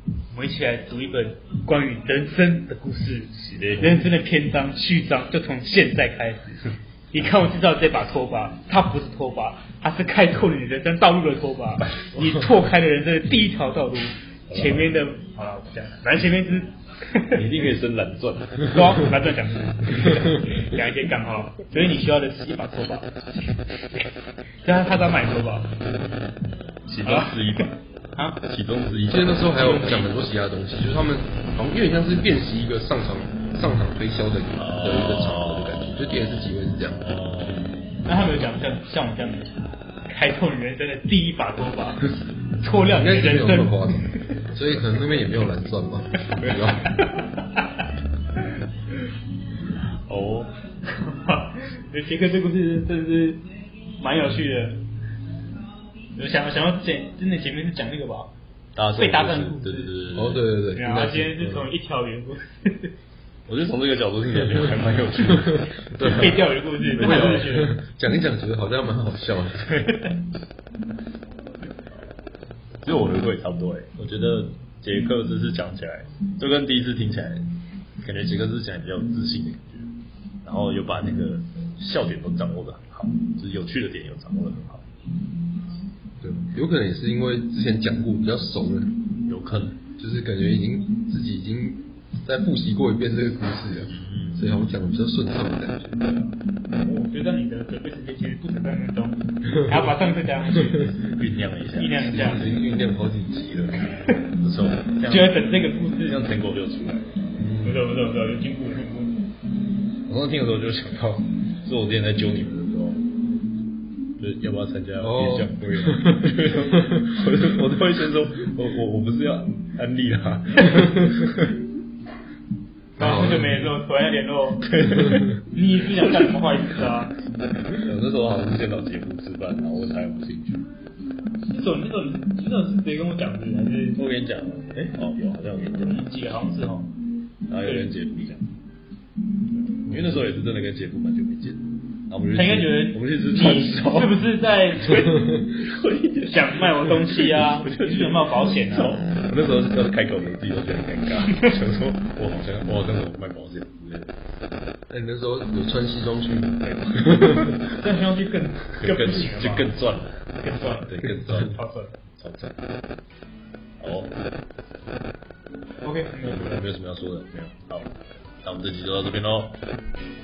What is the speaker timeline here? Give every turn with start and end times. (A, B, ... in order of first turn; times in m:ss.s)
0:00.3-0:17.4 A
0:03.4-0:04.1 B
0:14.5-0:14.9 B
0:17.3-0:19.0 B
0:18.7-0:23.1 A
0:24.6-0:25.7 A
0:26.9-0:27.8 B
0:27.0-0:27.6 A
0:28.4-0:29.5 B
0:29.1-0:37.0 C
0:29.5-0:30.1 A
0:34.6-0:36.0 B
0:37.0-0:37.7 B
0:38.1-0:43.9 A
0:42.9-0:46.9 C
0:46.4-0:46.7 B
0:50.1-0:50.5 B
0:50.9-0:53.4 A
0:54.0-0:54.8 A
0:56.2-0:58.3 A
0:58.8-1:00.4 B
0:59.0-0:59.9 A
1:00.1-1:01.7 C
1:00.8-1:02.9 A
1:03.5-1:07.6 B
1:05.5-1:09.9 C
1:06.0-1:07.8 A
1:09.6-1:10.1 A
1:12.8-1:17.4 B
1:18.0-1:19.9 B
1:20.4-1:24.8 B
1:26.2-1:29.0 C
1:29.3-1:29.8 B
1:30.0-1:36.0 C
1:33.9-1:34.4 B
1:36.8-1:41.0 A
1:39.6-1:39.9 C
1:41.0-1:42.0 B
1:41.8-1:42.5 A
1:42.0-1:43.8 C
1:44.4-1:47.1 B
1:45.0-1:46.3 A
1:47.4-1:47.9 C
1:47.6-1:49.2 A
1:50.1-1:53.0 B
1:54.2-2:01.5 B
1:55.0-1:57.0 C
2:03.0-2:04.6 A
2:03.0-2:03.7 C
2:04.6-2:05.4 B
2:05.4-2:07.1 A
2:07.8-2:10.7 B
2:11.5-2:14.0 A
2:14.0-2:16.1 B
2:15.8-2:16.9 A
2:17.5-2:18.5 B
2:19.8-2:24.3 B
2:22.3-2:25.4 A
2:24.8-2:34.1 B
2:26.3-2:29.0 A
2:34.9-2:37.6 C
2:36.6-2:37.6 B
2:37.8-2:39.7 A
2:38.8-2:40.2 B
2:40.4-2:41.9 A
2:40.9-2:41.6 B
2:42.2-2:42.6 B
2:43.8-2:44.1 B
2:45.8-2:46.6 A
2:46.2-2:47.9 B
2:48.4-2:49.6 B